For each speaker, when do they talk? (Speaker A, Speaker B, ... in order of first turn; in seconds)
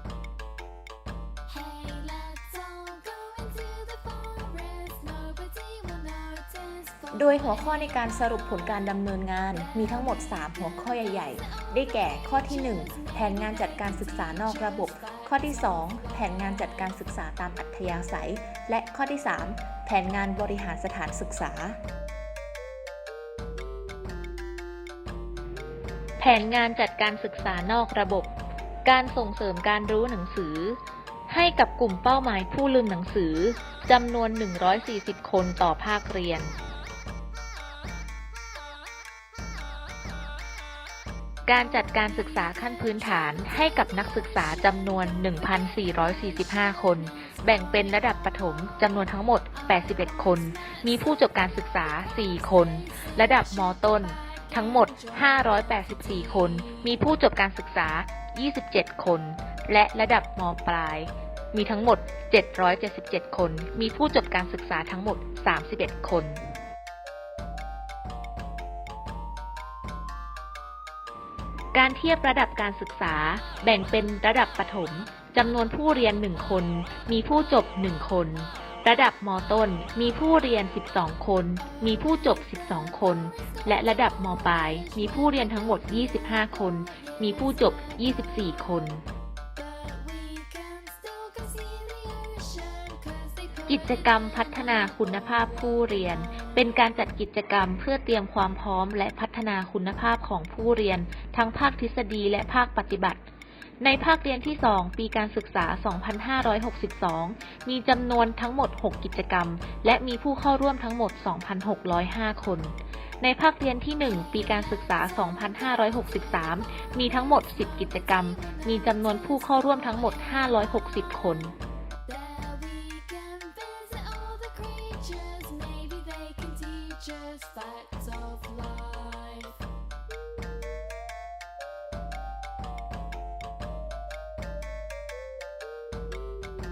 Speaker A: 1.5-7.7, 9.7-16.7, 49.6-51.3, 51.9-56.8, 86.9-87.2, 89.6-96.6, 117.5-120.6, 122.1-129.6
Speaker B: 7.1-21.8
Speaker C: 26.2-28.3, 28.8-36.5, 41.5-66.4, 71.7-89.0, 93.7-103.2, 103.8-121.5